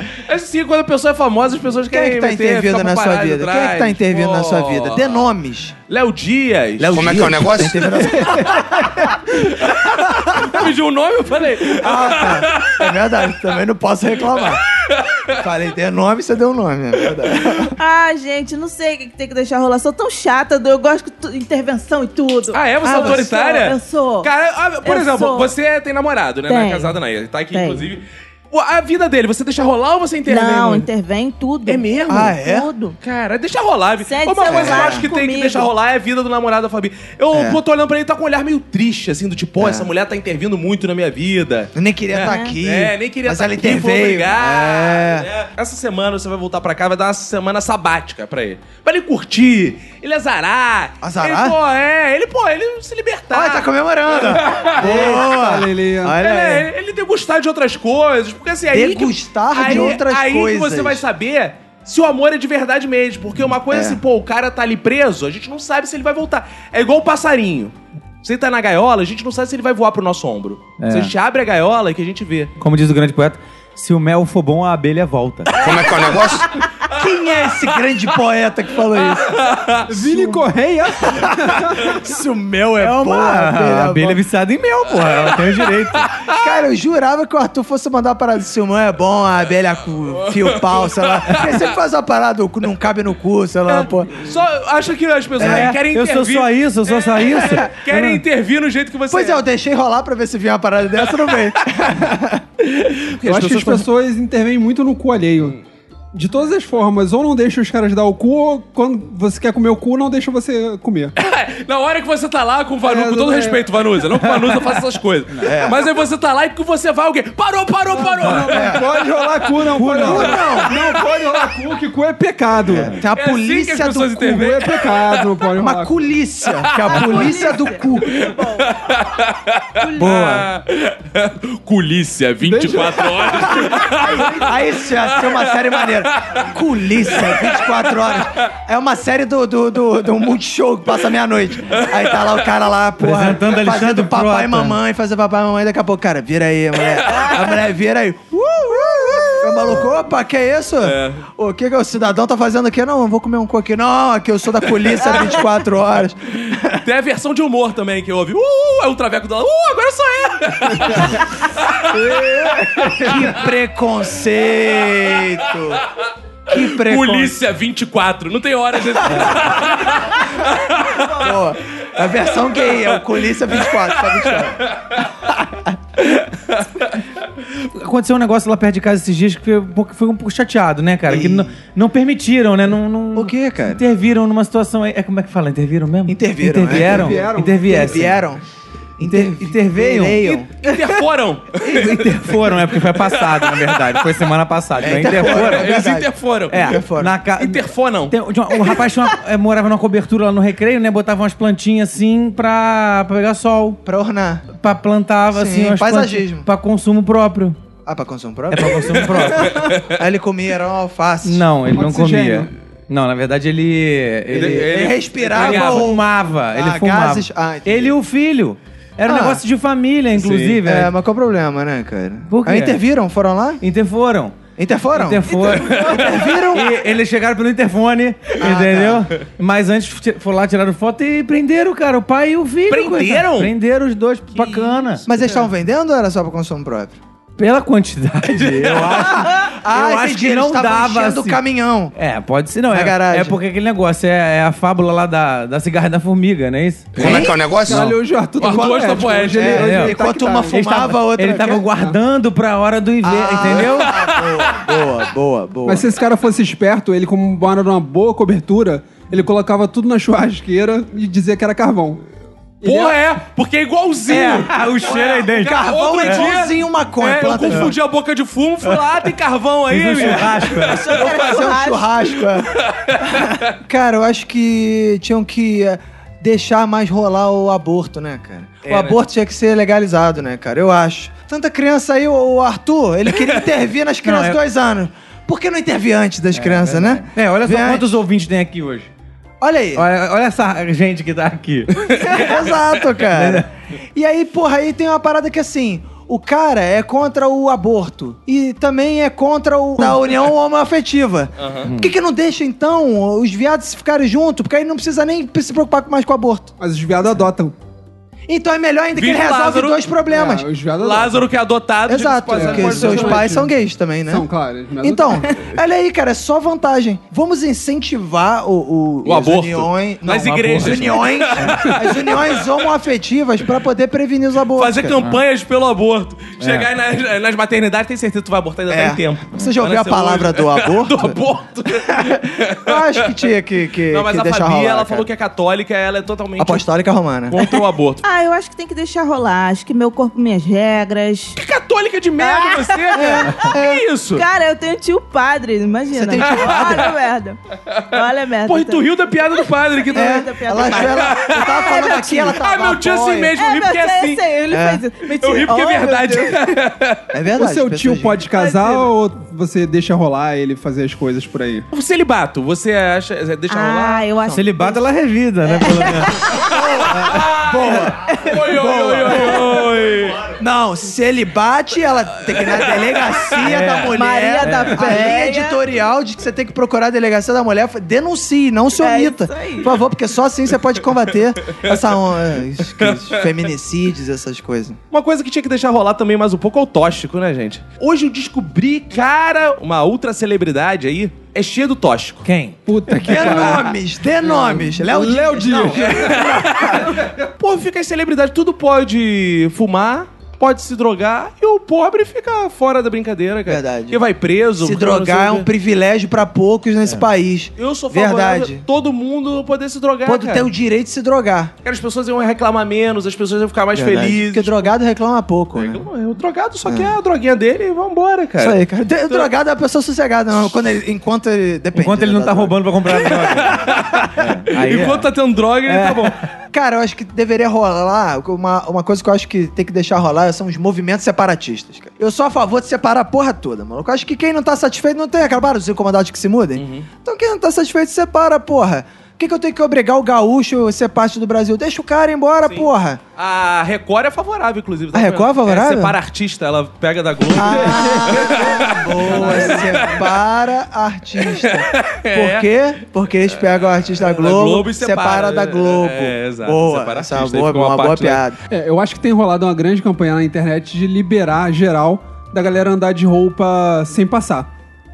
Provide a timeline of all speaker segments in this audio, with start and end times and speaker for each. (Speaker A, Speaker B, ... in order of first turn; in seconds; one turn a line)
Speaker A: 0.3-5.2
Speaker B: 1.9-5.7
Speaker A: 5.9-8.2
Speaker B: 6.8-9.2
Speaker C: 6.9-7.9
Speaker A: 9.4-12.8
Speaker B: 9.7-10.7
Speaker B: 11.7-14.6
Speaker A: 14.4-15.3
Speaker B: 15.4-17.7
Speaker D: 17.8-24.3
Speaker A: 22.5-30.9
Speaker B: 22.8-23.2
Speaker D: 24.8-25.5
Speaker D: 26.5-26.9
Speaker D: 27.5-27.9
Speaker D: 30.3-33.0
Speaker A: 31.6-32.3
Speaker B: 32.1-32.7
Speaker A: 33.0-54.8
Speaker D: 34.0-35.7
Speaker B: 34.4-35.1
Speaker B: 37.3-37.6
Speaker B: 39.6-39.9
Speaker B: 41.7-45.3
Speaker D: 42.2-42.5
Speaker B: 51.0-51.5
Speaker B: 53.3-56.7
Speaker E: 54.8-56.2
Speaker A: 56.2-72.5
Speaker B: 58.7-61.0
Speaker B: 63.7-64.0
Speaker F: 70.8-71.1
Speaker F: 72.6-75.5
Speaker C: 75.5-76.5
Speaker B: 76.9-79.4
Speaker A: 77.0-77.7
Speaker A: 79.0-80.2
Speaker E: 79.9-81.9
Speaker B: 81.1-84.2
Speaker F: 82.8-86.2
Speaker A: 85.1-85.7
Speaker B: 86.3-94.3
Speaker A: 90.2-91.6
Speaker A: 93.7-99.4
Speaker B: 95.4-95.7
Speaker F: 95.4-98.2
Speaker B: 99.1-102.4
Speaker A: 102.7-103.8
Speaker E: 103.2-105.5
Speaker E: 106.1-111.1
Speaker A: 111.2-118.8
Speaker E: 112.8-113.6
Speaker B: 115.4-115.8
Speaker E: 117.9-122.9
Speaker B: 118.5-118.9
Speaker F: 119.7-120.3
Speaker B: 120.0-120.9
Speaker B: 122.7-124.2
Speaker A: 123.1-125.2
Speaker E: 124.2-126.0
Speaker B: 125.6-128.2
Speaker A: 126.7-127.5
Speaker D: 126.9-128.7
Speaker A: 128.1-134.4
Speaker D: 129.8-130.0
Speaker B: 129.9-130.5
Speaker E: 132.4-134.3
Speaker B: 134.4-156.8
Speaker A: 135.1-136.4
Speaker A: 137.1-137.8
Speaker A: 141.8-142.3
Speaker F: 143.0-144.8
Speaker A: 147.1-147.5
Speaker A: 150.8-151.2
Speaker A: 156.7-161.8
Speaker E: 161.9-163.2
Speaker B: 163.0-165.8
Speaker B: 166.5-167.3
Speaker A: 166.5-171.3
Speaker B: 171.1-174.6
Speaker A: 173.6-175.0
Speaker A: 176.1-176.7
Speaker F: 177.7-188.2
Speaker B: 181.1-181.5
Speaker B: 183.1-183.8
Speaker B: 186.1-188.4
Speaker E: 186.7-187.9
Speaker B: 189.0-190.5
Speaker F: 189.0-190.3
Speaker A: 190.2-194.0
Speaker F: 191.6-195.8
Speaker B: 194.8-197.2
Speaker A: 194.8-196.8
Speaker F: 196.5-203.8
Speaker A: 197.4-198.1
Speaker B: 203.8-204.5
Speaker F: 204.5-207.6
Speaker B: 205.3-206.5
Speaker B: 207.8-211.4
Speaker F: 208.5-209.7
Speaker A: 208.8-209.9
Speaker F: 211.2-220.9
Speaker E: 211.7-212.5
Speaker A: 214.3-216.0
Speaker B: 214.3-217.9
Speaker B: 219.1-219.4
Speaker A: 220.2-220.6
Speaker B: 220.6-223.6
Speaker F: 222.3-222.8
Speaker F: 223.6-224.4
Speaker B: 224.6-226.8
Speaker F: 224.9-235.0
Speaker D: 225.5-226.1
Speaker B: 228.4-229.1
Speaker A: 232.7-233.5
Speaker A: 234.3-235.2
Speaker B: 235.1-237.0
Speaker F: 237.4-241.4
Speaker B: 238.6-241.9
Speaker F: 241.9-248.0
Speaker B: 242.7-243.4
Speaker C: 246.9-247.8
Speaker B: 247.0-247.4
Speaker E: 247.6-250.8
Speaker A: 248.4-249.6
Speaker B: 248.4-251.7
Speaker F: 249.5-249.9
Speaker F: 250.5-254.0
Speaker B: 253.0-255.9
Speaker A: 254.2-254.6
Speaker E: 255.7-262.0
Speaker E: 262.6-262.9
Speaker A: 262.6-271.4
Speaker B: 264.1-267.7
Speaker F: 264.2-266.3
Speaker F: 269.7-270.9
Speaker D: 270.8-271.9
Speaker B: 270.9-288.0
Speaker A: 272.6-273.4
Speaker A: 278.6-279.0
Speaker F: 284.0-284.4
Speaker F: 286.3-288.9
Speaker B: 289.4-289.9
Speaker F: 289.7-292.5
Speaker B: 292.0-306.5
Speaker F: 293.1-293.4
Speaker A: 301.4-301.7
Speaker E: 306.6-307.5
Speaker B: 308.3-310.5
Speaker A: 308.9-309.8
Speaker E: 310.1-311.2
Speaker A: 310.8-313.2
Speaker B: 311.9-314.2
Speaker E: 312.3-313.5
Speaker E: 314.1-315.5
Speaker B: 314.8-325.0
Speaker A: 319.0-322.5
Speaker F: 320.3-321.5
Speaker A: 324.5-333.2
Speaker F: 326.4-326.7
Speaker B: 328.7-331.2
Speaker B: 331.9-335.1
Speaker A: 333.9-336.6
Speaker B: 336.4-337.4
Speaker A: 337.3-338.0
Speaker D: 338.0-341.4
Speaker A: 341.4-344.2
Speaker D: 342.2-343.5
Speaker B: 342.9-343.8
Speaker D: 344.1-347.4
Speaker B: 345.9-346.9
Speaker A: 346.2-346.9
Speaker D: 347.9-348.9
Speaker A: 348.4-354.2
Speaker D: 349.8-352.4
Speaker B: 349.9-353.3
Speaker D: 353.4-356.4
Speaker B: 354.5-354.8
Speaker A: 355.1-357.0
Speaker B: 357.1-358.2
Speaker E: 357.3-361.7
Speaker D: 358.3-358.9
Speaker A: 361.7-364.1
Speaker D: 363.5-364.8
Speaker F: 364.3-366.2
Speaker D: 365.4-366.5
Speaker B: 366.4-369.7
Speaker A: 366.7-370.3
Speaker D: 368.1-368.4
Speaker B: 370.4-384.8
Speaker A: 372.3-373.8
Speaker D: 373.9-375.6
Speaker F: 374.4-375.1
Speaker D: 378.8-379.7
Speaker A: 382.8-383.2
Speaker A: 384.9-392.2
Speaker F: 392.2-393.5
Speaker E: 392.6-397.1
Speaker B: 393.0-396.4
Speaker A: 395.8-396.9
Speaker A: 397.4-405.5
Speaker B: 403.4-404.0
Speaker B: 404.6-408.6
Speaker A: 407.6-410.5
Speaker B: 410.0-411.5
Speaker A: 411.6-414.7
Speaker B: 413.7-415.9
Speaker A: 415.5-418.6
Speaker B: 416.6-416.9
Speaker B: 418.4-423.4
Speaker F: 421.7-425.1
Speaker A: 423.0-426.1
Speaker F: 425.7-426.1
Speaker B: 426.5-443.0
Speaker A: 436.6-436.9
Speaker A: 442.4-450.0
Speaker B: 444.9-445.9
Speaker E: 447.3-450.0
Speaker B: 447.3-458.4
Speaker A: 451.2-452.5
Speaker A: 453.4-458.2
Speaker E: 458.5-464.5